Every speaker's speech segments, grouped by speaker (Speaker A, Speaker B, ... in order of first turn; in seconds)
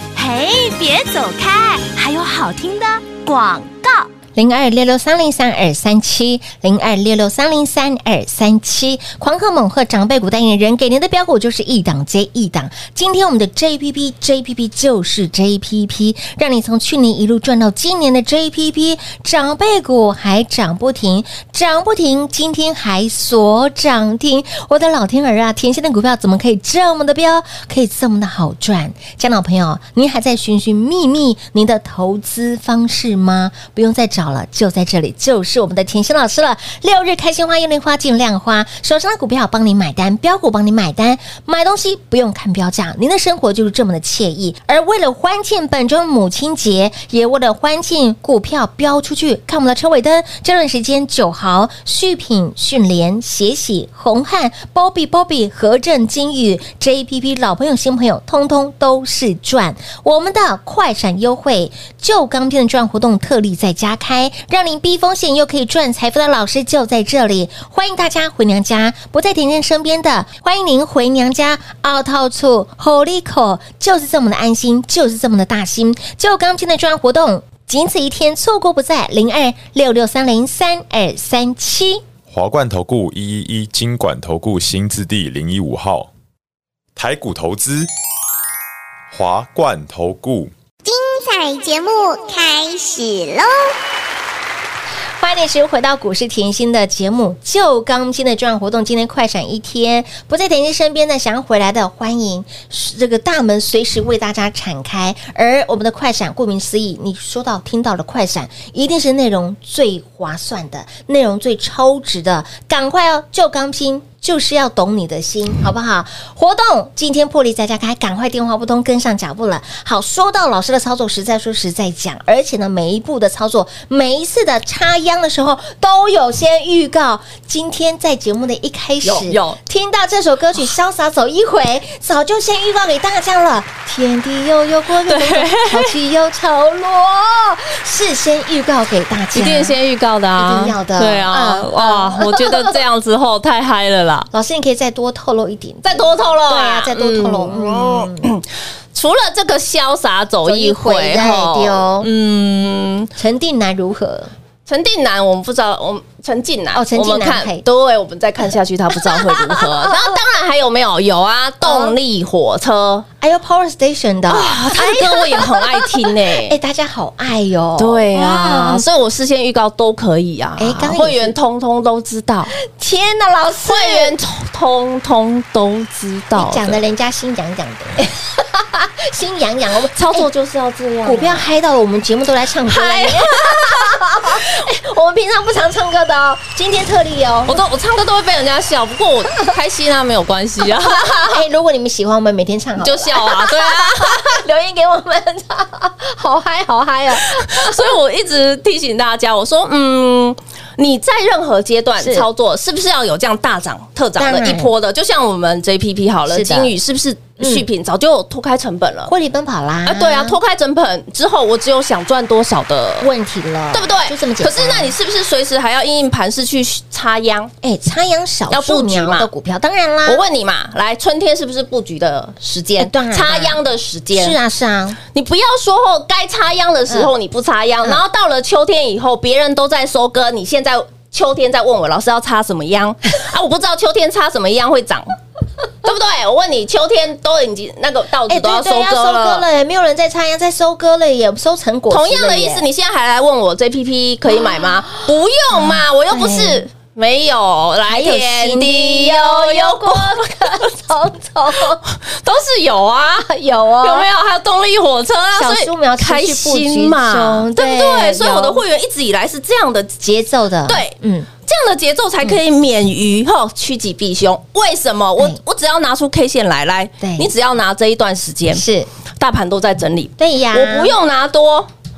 Speaker A: 0.1-4.1
Speaker B: 4.3-82.0, 95.2-139.8, 140.4-142.7, 144.3-148.3, 150.5-152.1, 153.2-154.3, 156.7-157.6, 159.0-160.1, 161.6-161.9, 163.2-168.8, 170.6-171.3, 172.6-174.1, 176.3-180.3, 181.1-187.6, 190.8-197.9, 202.0-202.3, 204.2-204.7, 206.3-206.7, 207.4-207.7, 209.1-210.4, 213.0-214.9, 217.6-220.2, 222.8-223.6, 224.1-225.0, 238.3-242.6, 244.4-244.7, 245.5-246.6, 247.9-251.8, 253.2-254.1, 255.4-258.6, 260.0-261.3, 267.0-267.3, 268.5-268.9, 270.2-270.9
Speaker C: 82.3-86.1, 87.0-87.9, 89.1-90.5
Speaker D: 90.8-93.7
Speaker E: 129.0-129.6, 135.1-135.9, 139.3-144.3, 145.8-153.1, 154.7-163.1, 164.3-166.6, 167.8-172.5, 173.6-176.8, 179.9-181.5, 182.7-184.5, 187.5-191.4, 192.8-194.3, 197.2-209.1, 209.9-213.1, 213.7-217.5, 218.5-219.3, 220.1-224.4, 225.1-235.2, 235.8-239.4, 241.9-250.6, 251.8-253.3, 253.8-260.0, 260.7-268.6, 269.2-271.7